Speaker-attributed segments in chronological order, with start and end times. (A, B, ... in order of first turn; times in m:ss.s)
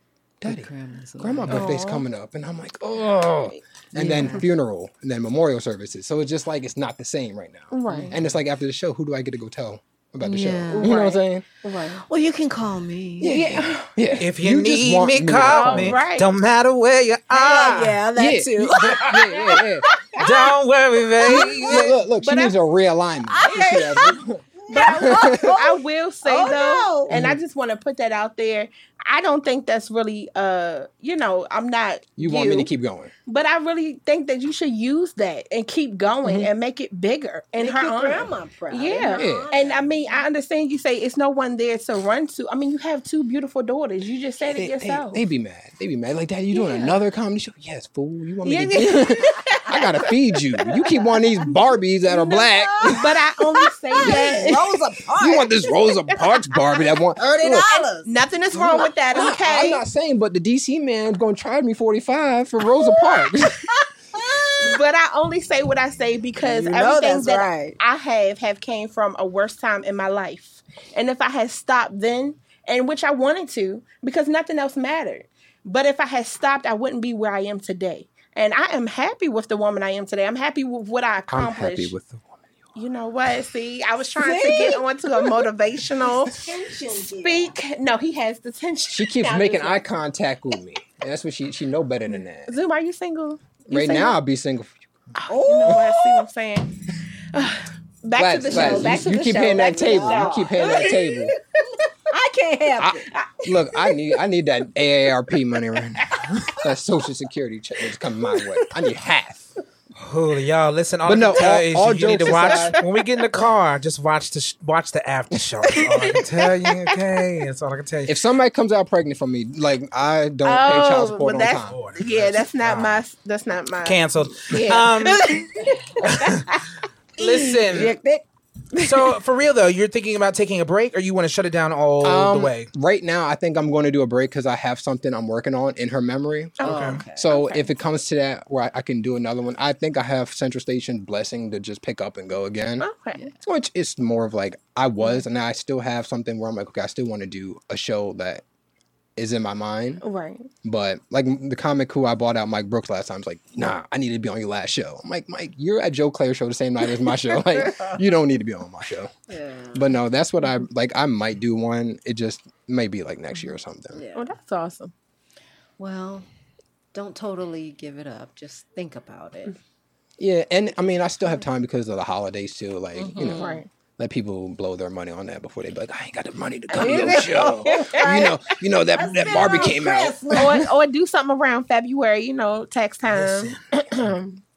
0:00.4-0:11.4 A
0:00.4-0:01.8 B
0:01.5-0:02.1 C
0:03.9-0:04.5 B
0:04.2-0:04.4 C
0:07.7-0:08.2 C
0:07.9-0:08.2 B
0:10.2-0:11.1 B
0:10.7-0:12.0 C
0:11.7-0:13.5 B
0:13.2-0:16.0 A
0:13.2-0:13.9 C
0:14.2-0:18.0 D
0:15.4-0:16.3 C
0:17.3-0:19.7 B
0:18.2-0:19.9 A
0:18.8-0:19.3 D
0:19.5-0:20.5 C
0:20.1-0:21.9 D
0:21.2-0:25.6 A
0:21.3-0:22.6 C
0:23.3-0:27.1 B
0:23.5-0:24.0 C
0:24.7-0:32.7 C
0:27.1-0:27.4 A
0:32.2-0:33.1 A
0:33.3-0:45.2 C
0:37.6-0:40.2 B
0:39.1-0:39.5 A
0:44.5-0:53.1 A
0:48.4-0:50.2 C
0:52.1-0:55.8 B
0:52.8-0:54.8 C
0:54.0-0:54.6 A
0:55.2-0:57.7 A
0:56.1-0:56.4 C
0:57.2-0:59.7 B
0:57.6-0:59.8 C
0:58.5-1:03.8 A
1:02.8-1:04.8 B
1:04.6-1:21.9 C
1:06.4-1:07.8 B
1:21.3-1:22.4 A
1:22.8-1:26.4 C
1:24.2-1:25.4 B
1:26.0-1:27.6 B
1:27.2-1:29.8 C
1:28.9-1:32.5 A
1:32.5-1:34.2 C
1:33.7-1:34.8 A
1:35.2-1:36.8 C
1:35.3-1:36.2 B
1:37.3-1:41.9 C
1:38.2-1:41.4 A
1:38.5-1:41.3 B
1:42.1-1:43.1 B
1:42.8-1:49.6 A
1:43.1-1:44.1 C
1:50.0-1:58.2 D
1:51.0-1:52.8 A
1:52.5-1:52.9 C
1:55.7-1:56.7 C
1:58.1-2:01.8 A
2:00.4-2:06.7 C
2:01.6-2:03.0 D
2:03.8-2:05.5 D
2:06.0-2:06.6 D
2:07.2-2:08.0 D
2:07.2-2:08.2 B
2:08.8-2:12.7 D
2:12.0-2:22.9 A
2:16.6-2:17.7 C
2:16.6-2:17.4 B
2:16.6-2:17.0 D
2:22.8-2:23.3 C
2:23.4-2:28.4 A
2:29.2-2:30.0 A
2:30.0-2:30.5 C
2:30.6-2:39.1 A
2:39.3-2:40.0 B
2:39.7-2:44.0 A
2:43.9-2:44.3 B
2:44.1-2:44.9 C
2:45.8-2:46.3 B
2:46.9-2:49.6 B
2:50.2-3:00.6 A
2:53.0-2:53.6 B
2:53.2-2:53.7 C
2:56.7-2:58.1 C
2:56.7-2:58.4 B
2:58.9-3:00.7 B
3:00.4-3:04.4 C
3:03.1-3:04.1 D